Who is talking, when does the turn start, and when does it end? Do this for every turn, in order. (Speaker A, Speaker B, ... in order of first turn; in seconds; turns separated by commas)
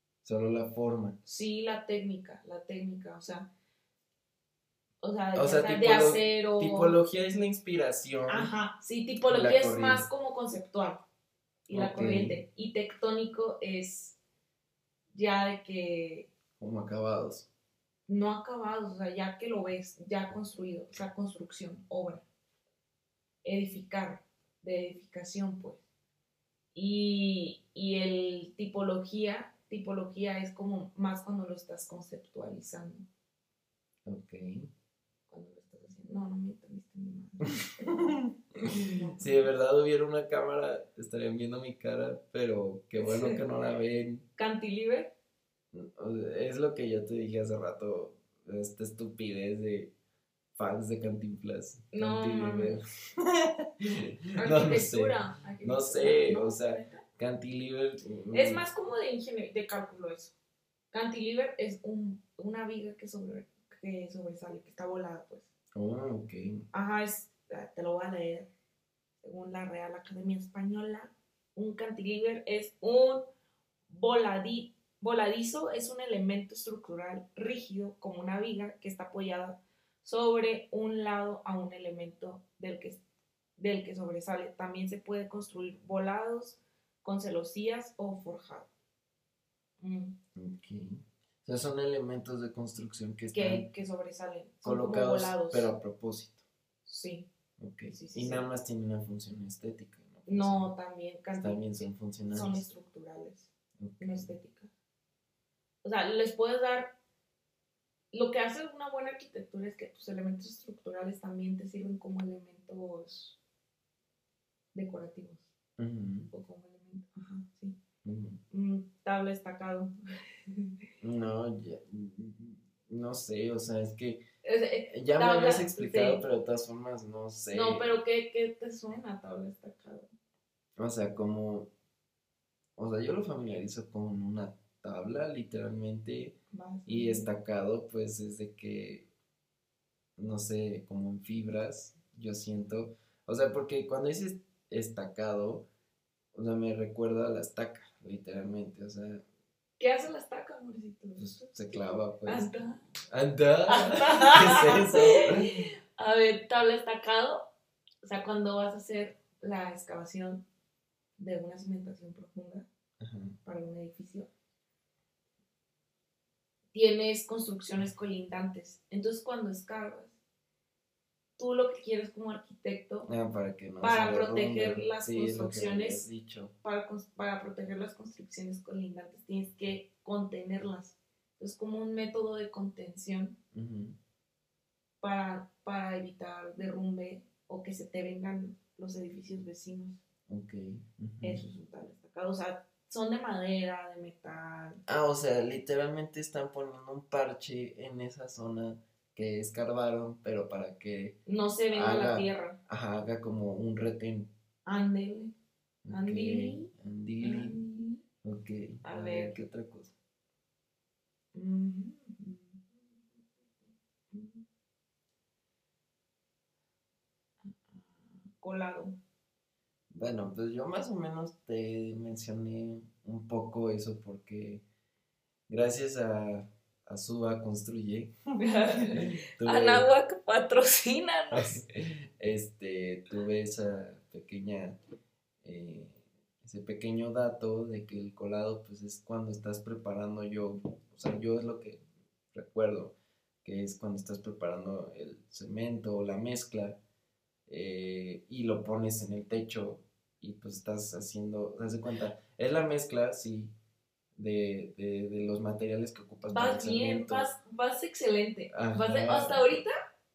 Speaker A: 0.2-1.2, Speaker B: 1.2-3.5, Speaker B: 5.0-7.0, Speaker A: 5.3-8.5, Speaker B: 8.3-11.0, Speaker A: 9.3-10.1, Speaker B: 11.7-14.2, Speaker A: 11.7-12.4, Speaker B: 15.1-16.3, Speaker A: 16.6-17.5, Speaker B: 18.1-22.2, Speaker B: 23.4-25.8, Speaker B: 26.8-33.1, Speaker A: 34.1-34.7, Speaker B: 35.3-38.2, Speaker A: 37.9-44.2, Speaker B: 38.7-39.5, Speaker B: 43.0-43.4, Speaker B: 44.4-45.1, Speaker A: 45.7-49.9, Speaker A: 50.6-58.6, Speaker B: 51.9-52.8, Speaker B: 54.4-57.0, Speaker B: 58.3-60.4, Speaker B: 60.9-65.5, Speaker A: 65.8-66.6, Speaker B: 66.7-68.5, Speaker B: 69.2-73.3, Speaker B: 73.9-83.0, Speaker B: 83.6-88.7, Speaker B: 89.8-90.2, Speaker A: 90.4-93.7, Speaker B: 93.3-95.7, Speaker A: 94.6-96.4, Speaker B: 96.9-97.3, Speaker A: 97.6-100.7, Speaker B: 97.9-98.5, Speaker B: 100.3-104.7, Speaker A: 101.3-102.7, Speaker A: 103.8-104.3, Speaker B: 105.8-107.0, Speaker B: 108.1-113.4, Speaker B: 114.7-115.5, Speaker A: 115.8-116.3, Speaker B: 116.3-117.8, Speaker A: 118.0-118.4, Speaker B: 118.5-119.9, Speaker A: 121.0-124.2, Speaker B: 124.4-126.2, Speaker A: 124.9-128.0, Speaker B: 127.5-130.1, Speaker A: 130.8-131.7, Speaker A: 132.8-139.1, Speaker B: 136.5-137.3, Speaker A: 140.2-145.7, Speaker A: 146.3-149.2, Speaker B: 149.8-152.8, Speaker A: 151.2-152.5, Speaker A: 153.1-155.7, Speaker B: 153.7-157.5, Speaker B: 158.0-160.4, Speaker B: 161.2-162.7, Speaker A: 163.0-163.4, Speaker B: 163.4-164.3, Speaker B: 166.7-170.2, Speaker B: 171.4-173.1, Speaker A: 173.1-176.5, Speaker B: 173.8-176.1, Speaker B: 176.6-183.4, Speaker A: 183.5-184.0, Speaker B: 185.0-190.0, Speaker A: 190.3-191.4, Speaker B: 191.2-194.8, Speaker A: 194.9-201.2, Speaker B: 201.3-202.6, Speaker A: 201.7-204.3, Speaker B: 204.7-205.3, Speaker A: 205.8-207.6, Speaker B: 205.9-206.7, Speaker B: 207.2-208.0, Speaker A: 208.2-209.9, Speaker B: 208.8-209.4, Speaker B: 211.3-212.7, Speaker B: 214.1-214.4, Speaker B: 217.7-219.0, Speaker A: 219.9-224.6, Speaker A: 225.5-228.1, Speaker B: 228.4-231.6, Speaker A: 228.7-229.9, Speaker A: 231.3-234.8, Speaker A: 235.4-241.8, Speaker A: 242.3-246.8, Speaker A: 247.5-253.5, Speaker A: 254.2-257.3, Speaker B: 256.3-259.7, Speaker A: 258.5-259.6